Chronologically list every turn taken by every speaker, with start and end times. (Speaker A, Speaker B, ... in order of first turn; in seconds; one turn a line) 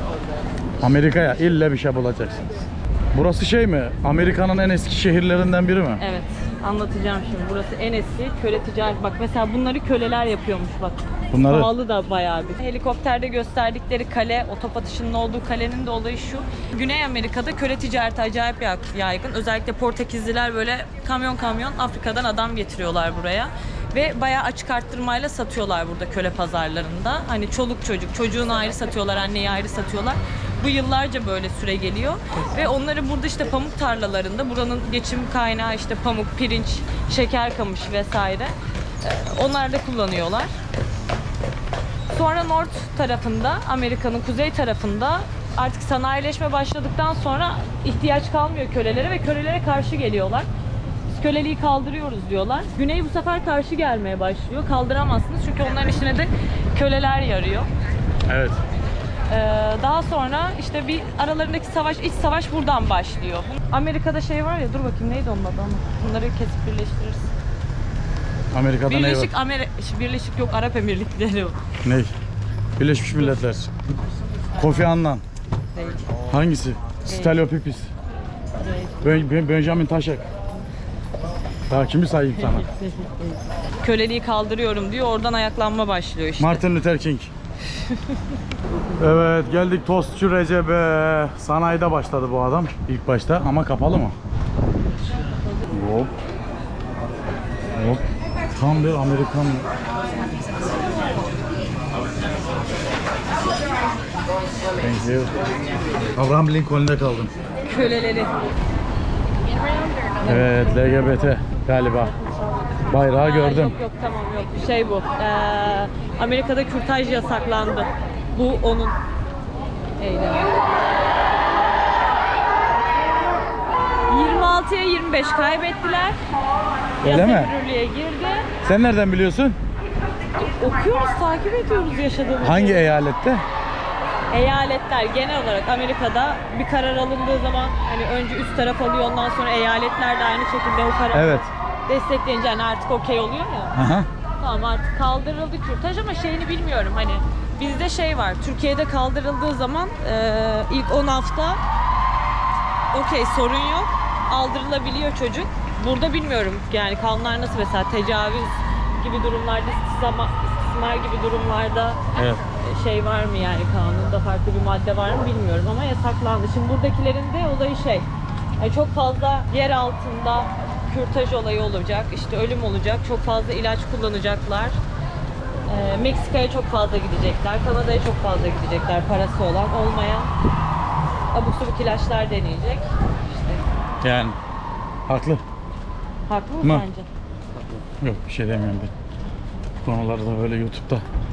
Speaker A: 0.8-6.0
Speaker B: 6.0-40.5
Speaker A: 11.3-11.7
Speaker B: 42.1-50.5
Speaker B: 51.1-57.7
Speaker A: 58.3-58.6
Speaker B: 59.3-67.3
Speaker A: 68.5-69.3
Speaker B: 68.9-71.6
Speaker A: 71.8-72.1
Speaker A: 72.8-73.7
Speaker A: 74.5-75.2
Speaker B: 75.8-76.1
Speaker A: 76.3-77.9
Speaker B: 77.0-77.4
Speaker B: 78.6-79.0
Speaker A: 79.0-80.3
Speaker A: 81.7-82.7
Speaker B: 82.4-86.6
Speaker A: 86.4-87.3
Speaker B: 87.8-88.4
Speaker A: 89.0-94.2
Speaker A: 95.7-96.1
Speaker A: 97.7-99.7
Speaker A: 104.8-105.3
Speaker A: 106.2-107.3
Speaker B: 107.6-108.3
Speaker A: 110.2-112.2
Speaker A: 112.9-113.8
Speaker B: 113.0-119.0
Speaker B: 120.0-120.6
Speaker B: 124.1-126.2
Speaker A: 127.0-127.5
Speaker B: 127.0-128.5
Speaker A: 128.6-129.6
Speaker B: 130.4-132.8
Speaker A: 132.4-133.4
Speaker B: 134.3-143.7
Speaker A: 141.1-141.5
Speaker A: 143.8-144.1
Speaker B: 144.4-151.6
Speaker B: 152.9-162.0
Speaker A: 162.2-162.4
Speaker B: 162.5-168.1
Speaker B: 168.6-174.8
Speaker B: 175.7-180.3
Speaker B: 181.3-183.6
Speaker A: 184.0-184.4
Speaker A: 185.1-185.4
Speaker B: 186.3-187.1
Speaker A: 188.0-188.9
Speaker A: 189.8-191.1